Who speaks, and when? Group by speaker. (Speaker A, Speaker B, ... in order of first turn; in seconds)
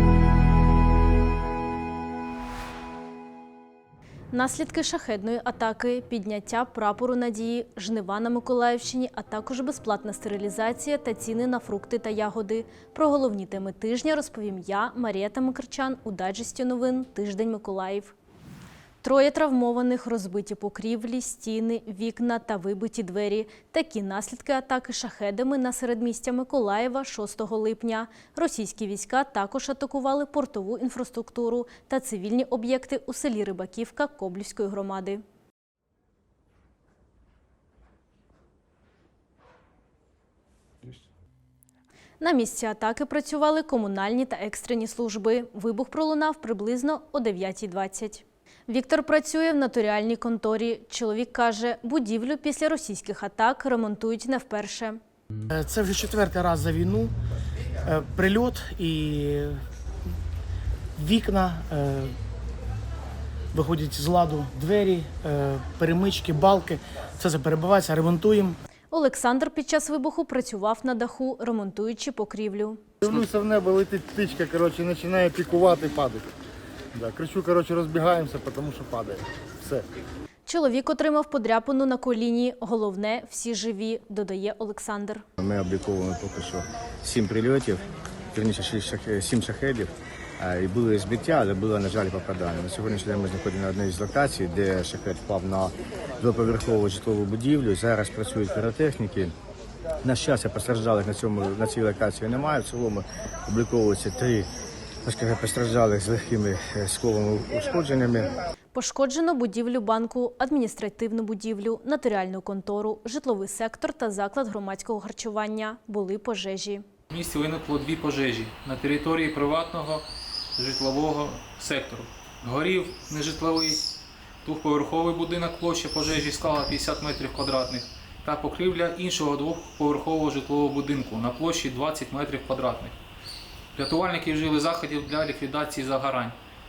Speaker A: 4.3-18.1, 19.0-35.2, 42.2-55.0, 68.9-72.8, 80.5-85.2, 108.7-116.8
Speaker B: 55.7-57.0, 58.0-59.5, 61.0-62.1, 63.7-68.5
Speaker C: 73.0-76.2, 76.9-79.8
Speaker D: 85.4-87.8, 88.3-99.3, 100.0-104.5, 105.0-108.3
Speaker E: 117.1-120.0, 120.6-123.8, 124.4-133.0, 133.7-136.3